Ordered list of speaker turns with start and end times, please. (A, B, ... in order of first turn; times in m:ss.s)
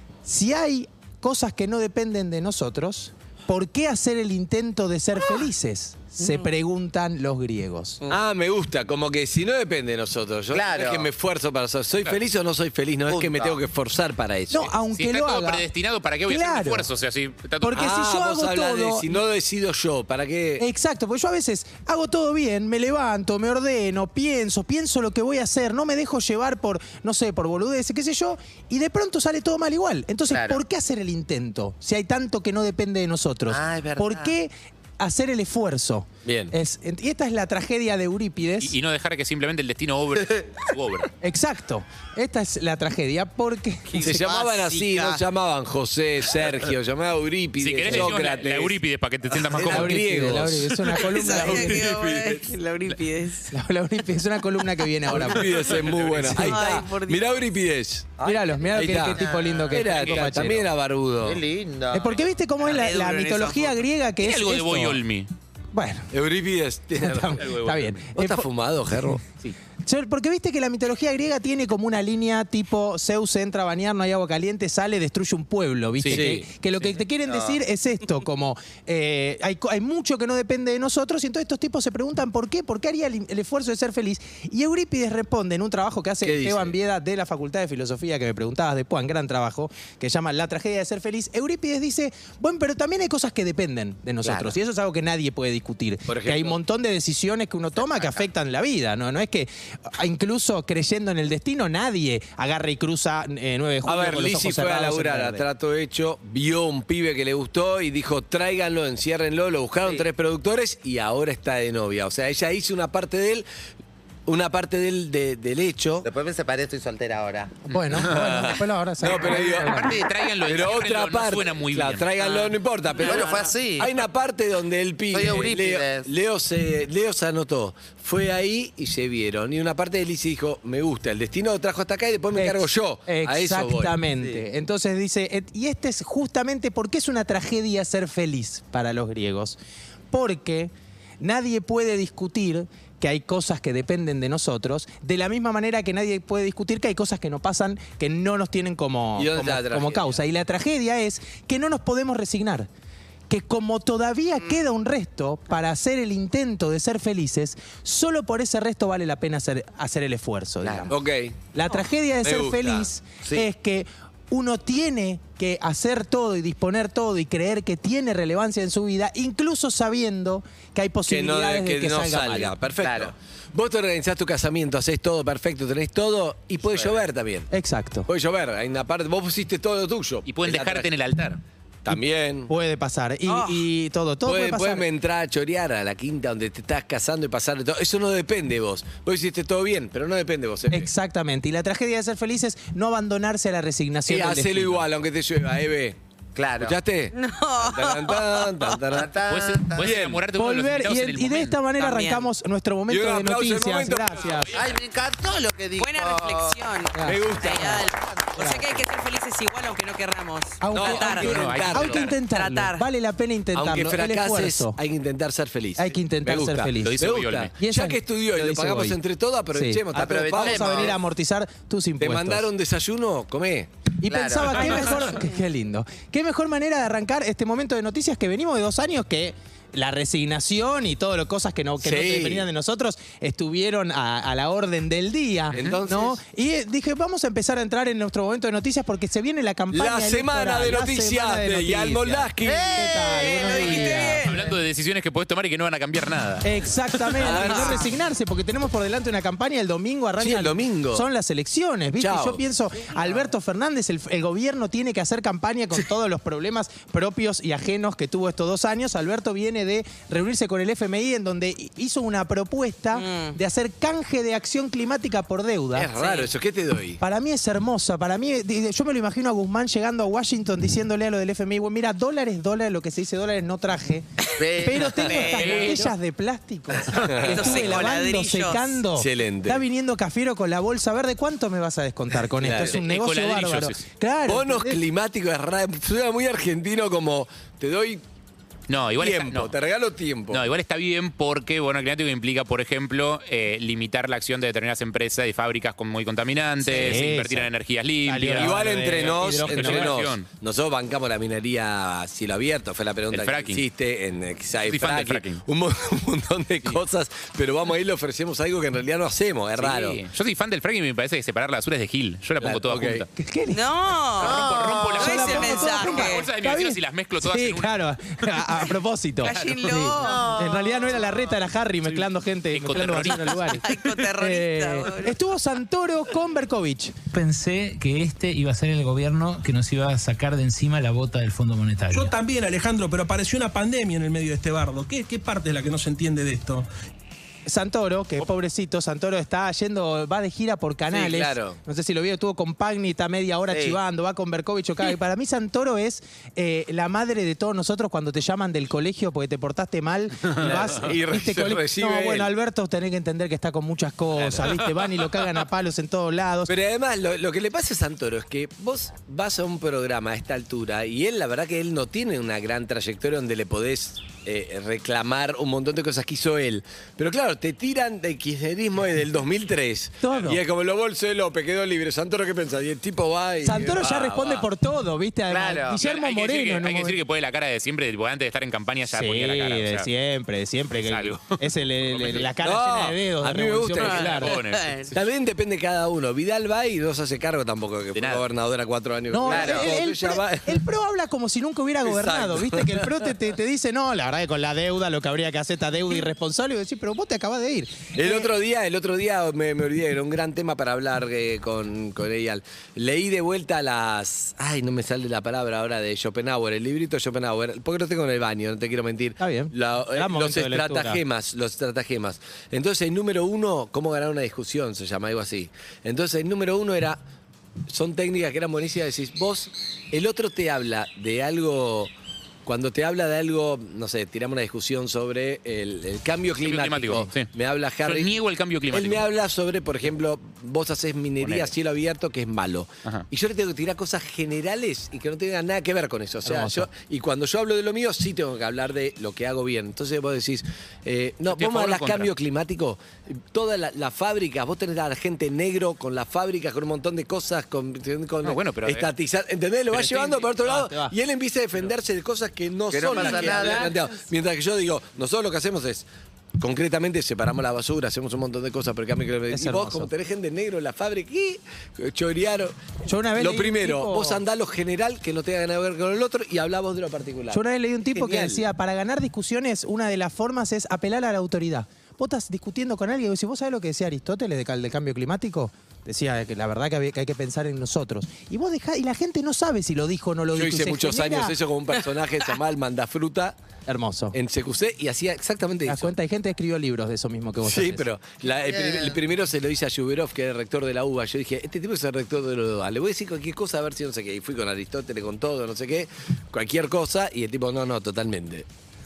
0:00.2-0:08.0 A
0:08.1-0:14.7 B
0:10.5-0:11.1 C
0:13.1-0:13.6 C
0:14.5-0:15.6 A
0:14.9-0:17.9 D
0:16.2-0:16.9 A
0:17.6-0:19.2 A
0:17.7-0:20.7 B
0:20.6-0:38.8 A
0:30.3-0:30.6 C
0:33.5-0:34.3 C
0:36.2-0:36.5 B
0:38.6-0:41.1 D
0:41.2-0:44.6 A
0:44.0-0:48.8 B
0:47.6-0:50.4 D
0:47.9-0:48.1 A
0:49.4-0:52.5 B
0:49.6-0:51.9 A
0:51.0-0:53.5 E
0:53.5-0:55.7 A
0:55.1-0:58.1 B
0:55.6-0:56.5 D
0:56.2-0:57.4 E
0:58.2-0:59.7 C
0:58.2-1:00.6 A
0:58.7-1:01.4 B
0:59.9-1:00.5 D
1:01.2-1:02.2 C
1:01.9-1:05.0 A
1:02.6-1:03.7 E
1:04.2-1:05.3 D
1:05.7-1:06.1 A
1:06.1-1:07.5 B
1:07.0-1:09.2 A
1:07.1-1:08.0 D
1:08.1-1:09.2 B
1:09.8-1:45.4 A
1:16.0-1:16.4 D
1:16.1-1:16.4 B
1:17.3-1:17.6 C
1:26.2-1:26.8 B
1:34.2-1:34.6 C
1:36.1-1:36.6 B
1:37.8-1:38.3 C
1:43.8-1:53.5 B
1:54.3-1:56.1 B
1:56.0-1:57.5 C
1:57.6-2:00.0 A
1:57.9-1:59.9 B
1:59.8-2:00.2 C
1:59.9-2:02.1 D
2:00.4-2:14.0 B
2:02.2-2:02.5 E
2:03.0-2:03.9 C
2:03.0-2:03.5 E
2:05.1-2:06.1 C
2:12.3-2:19.6 A
2:20.1-2:32.7 A
2:29.2-2:30.2 B
2:33.3-2:40.9 A
2:40.6-2:40.9 C
2:40.9-2:41.4 B
2:41.5-2:52.5 A
2:42.2-2:42.9 B
2:51.1-2:57.5 B
2:52.8-2:53.1 C
2:56.6-2:57.0 C
2:57.5-2:58.1 A
2:58.1-3:00.9 B
3:00.3-3:01.4 D
3:01.8-3:02.5 B
3:01.9-3:04.9 A
3:03.2-3:03.7 E
3:04.2-3:10.9 B
3:10.7-3:14.8 A
3:14.0-3:16.0 B
3:16.4-3:16.8 C
3:16.6-3:19.1 B
3:17.1-3:18.8 E
3:18.9-3:20.0 C
3:19.3-3:21.6 D
3:19.8-3:20.2 B
3:20.3-3:24.5 A
3:21.8-3:22.3 E
3:22.9-3:24.5 B
3:24.5-3:26.6 C
3:25.7-3:32.8 E
3:26.9-3:27.8 A
3:27.0-3:27.8 B
3:28.4-3:28.7 A
3:30.6-3:34.8 A
3:30.7-3:32.1 B
3:30.7-3:32.2 D
3:33.5-3:41.0 B
3:35.8-3:37.0 A
3:36.8-3:37.5 D
3:37.6-3:39.0 A
3:39.5-3:42.5 A
3:40.0-3:41.0 C
3:42.0-3:43.7 B
3:44.0-4:04.2 A
3:44.1-3:45.1 C
3:51.8-3:52.5 B
3:55.5-3:56.2 B
3:55.5-3:55.8 D
3:59.7-4:02.9 B
4:02.4-4:04.6 C
4:03.1-4:04.4 E
4:04.2-4:06.5 D
4:06.4-4:25.9 A
4:07.1-4:07.9 B
4:07.5-4:07.8 E
4:10.2-4:11.1 B
4:12.0-4:12.4 B
4:22.9-4:23.4 E
4:25.7-4:27.0 B
4:26.0-4:26.3 E
4:27.0-4:34.0 A
4:34.4-4:35.3 C
4:34.6-4:44.8 A
4:34.8-4:35.9 E
4:35.4-4:35.9 D
4:37.0-4:37.5 B
4:37.3-4:38.8 E
4:39.0-4:39.6 B
4:42.4-4:42.8 B
4:42.6-4:43.8 D
4:44.2-4:48.0 B
4:48.7-4:49.5 D
4:49.0-4:50.4 B
4:50.3-5:00.3 D
4:56.6-4:57.5 A
4:58.0-5:00.0 A
4:58.4-5:10.0 B
5:03.1-5:03.6 D
5:04.6-5:05.4 D
5:09.6-5:13.1 D
5:12.4-5:13.1 B
5:13.2-5:13.7 A
5:13.5-5:14.4 E
5:14.2-5:15.8 C
5:14.2-5:17.8 D
5:14.9-5:26.9 A
5:15.0-5:16.3 E
5:19.2-5:20.3 E
5:19.2-5:19.9 D
5:19.9-5:21.3 C
5:21.8-5:23.6 D
5:23.5-5:25.2 E
5:27.1-5:32.2 F
5:31.9-5:36.7 G
5:37.5-5:56.5 A
5:40.9-5:41.6 B
5:43.5-5:43.8 C
5:50.3-5:52.3 B
5:54.2-5:54.6 B
5:56.5-6:14.5 B
6:10.0-6:10.4 A
6:13.4-6:17.0 A
6:15.3-6:15.8 C
6:15.8-6:19.9 D
6:18.9-6:24.3 A
6:20.8-6:21.3 D
6:21.8-6:22.3 D
6:22.4-6:24.3 B
6:23.8-6:24.9 E
6:24.2-6:24.9 D
6:24.9-6:30.6 B
6:27.9-6:28.2 D
6:29.1-6:38.3 A
6:29.3-6:29.7 C
6:31.8-6:33.0 B
6:37.9-6:57.0 B
6:49.2-6:51.0 A
6:57.7-7:01.9 B
7:02.4-7:08.2 B
7:06.4-7:07.3 D
7:07.8-7:09.0 D
7:08.7-7:35.9 B
7:11.2-7:11.5 D
7:16.2-7:16.7 A
7:21.3-7:22.1 D
7:28.2-7:28.9 D
7:29.7-7:30.9 A
7:32.7-7:33.7 C
7:33.1-7:33.5 A
7:36.4-7:42.6 B
7:39.3-7:39.9 A
7:42.8-7:44.2 A
7:43.1-7:48.4 B
7:47.3-8:01.3 A
8:00.3-8:03.4 B
8:03.7-8:04.2 A
8:04.1-8:05.9 B
8:05.7-8:07.9 A
8:07.4-8:18.5 B
8:08.2-8:09.0 C